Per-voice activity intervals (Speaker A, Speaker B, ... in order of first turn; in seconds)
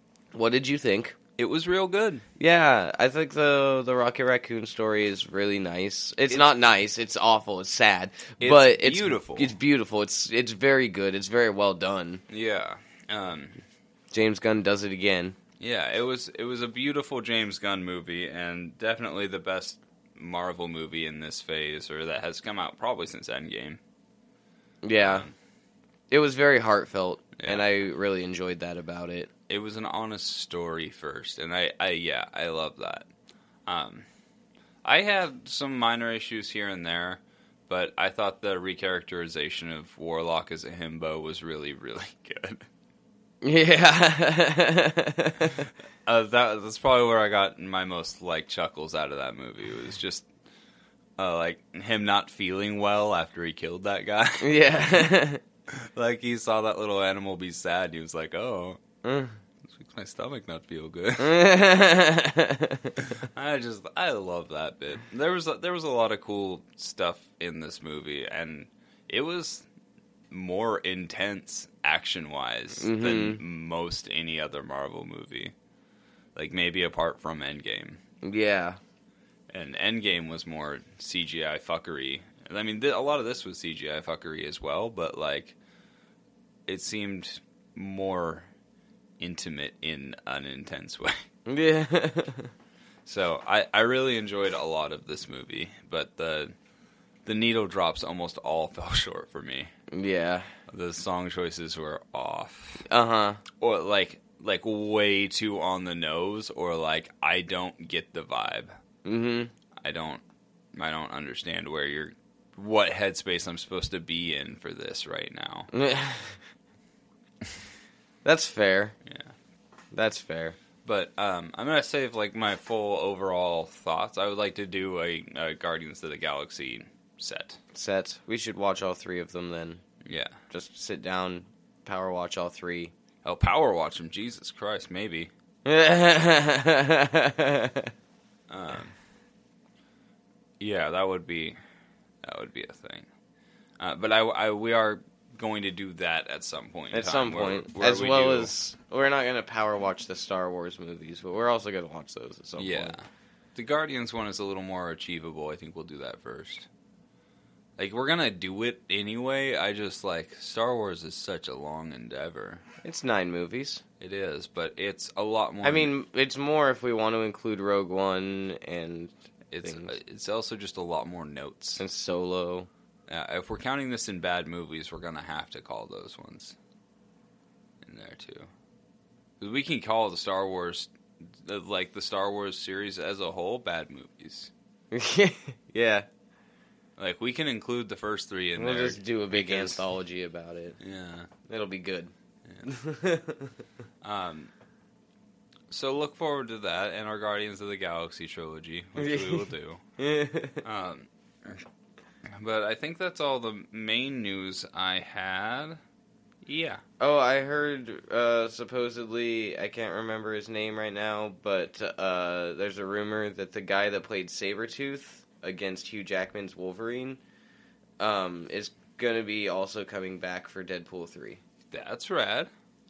Speaker A: 0.3-1.2, 2.4-12.2, 14.1-15.4, 24.8-25.3, 26.1-29.3, 43.4-45.7, 54.4-55.4, 59.0-59.4, 61.2-63.0, 72.8-73.4, 78.2-78.8, 91.5-92.5, 99.9-100.5, 102.8-103.4, 109.0-109.5, 115.7-116.4, 118.2-119.0, 119.9-120.6, 127.7-129.8, 130.5-132.9, 135.7-137.9, 146.9-153.0, 162.8-163.8, 165.6-169.9, 171.8-172.7, 184.9-186.1, 188.6-190.8, 191.5-192.1, 192.6-193.5, 199.0-200.6, 207.0-217.2, 218.0-221.4
Speaker B: 1.4-2.2, 8.4-9.6, 12.3-13.6, 15.6-23.8, 25.0-25.3, 27.4-27.7, 29.5-33.1, 33.7-34.1, 34.8-42.7, 46.1-50.3, 51.2-55.1, 55.7-58.8, 59.6-61.5, 63.0-69.7, 70.3-75.5, 76.3-78.0, 79.5-85.6, 86.7-88.5, 89.2-91.2, 93.1-96.5, 97.2-99.7, 100.7-102.8, 103.5-108.7, 109.8-110.2, 110.7-115.7, 119.1-119.3, 120.8-127.6, 130.0-130.4, 133.2-135.3, 138.5-139.0, 140.6-141.6, 142.2-143.1, 143.8-148.5, 152.6-156.7, 157.8-162.6, 164.0-165.9, 169.5-171.8, 173.1-176.6, 177.8-178.5, 179.4-184.5, 187.0-189.8, 190.8-191.3, 194.0-194.5, 195.7-199.8, 200.6-201.6, 202.3-205.8, 206.4-206.8, 221.7-222.5